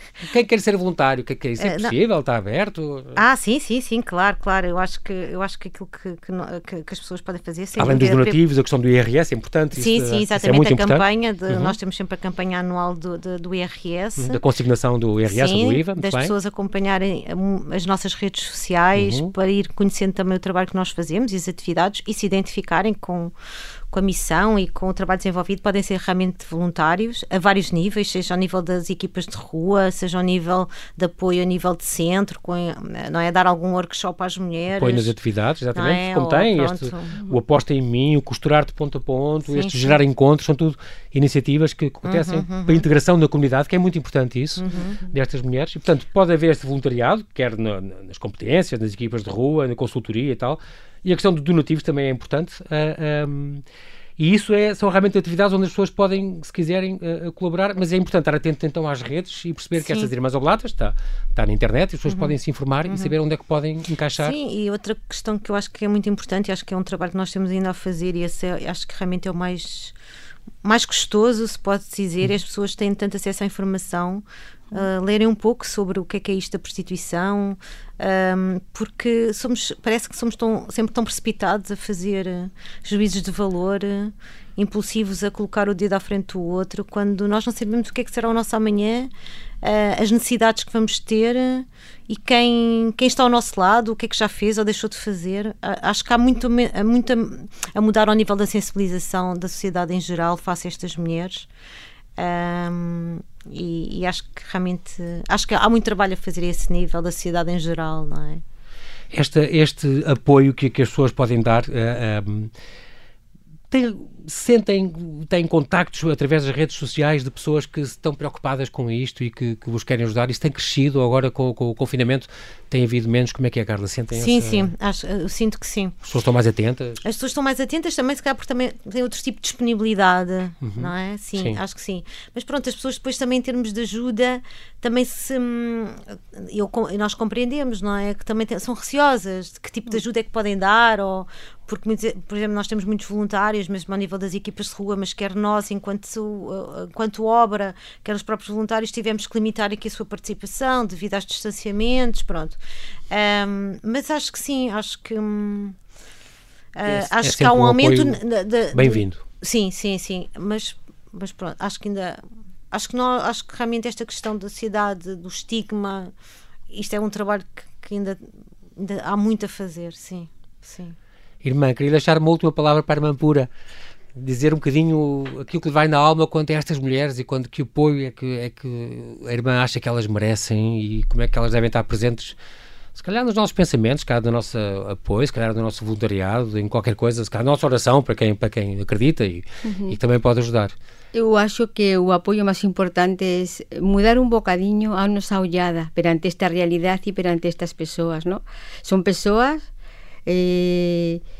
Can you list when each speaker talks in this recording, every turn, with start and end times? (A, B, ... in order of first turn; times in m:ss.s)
0:00.2-0:03.2 A
0:01.6-0:02.0 B
0:03.1-0:08.4 B
0:07.8-0:11.7 A
0:09.7-0:14.4 B
0:14.2-0:16.3 A
0:15.2-0:23.3 B
0:18.9-0:19.3 A
0:23.9-0:35.1 B
0:34.7-0:53.6 A
0:35.7-0:37.2 B
0:39.4-0:40.0 B
0:42.0-0:42.8 B
0:44.6-0:45.0 B
0:54.2-1:04.4 A
0:59.8-1:00.1 B
1:02.1-1:02.3 B
1:02.9-1:03.1 B
1:04.2-1:09.9 B
1:10.6-1:29.1 B
1:29.6-1:41.5 B
1:42.2-1:48.4 B
1:49.1-1:52.5 A
1:53.7-2:04.7 A
2:04.1-2:05.9 B
2:06.0-2:07.0 A
2:07.0-2:32.6 B
2:10.6-2:11.6 A
2:33.1-2:35.8 B
2:36.7-2:46.1 B
2:36.8-2:38.2 A
2:38.7-2:39.2 A
2:46.7-2:51.0 B
2:51.4-2:53.5 A
2:54.1-3:02.4 A
3:02.9-3:10.7 A
3:09.6-3:10.0 C
3:11.1-3:19.7 C
3:20.2-3:21.2 C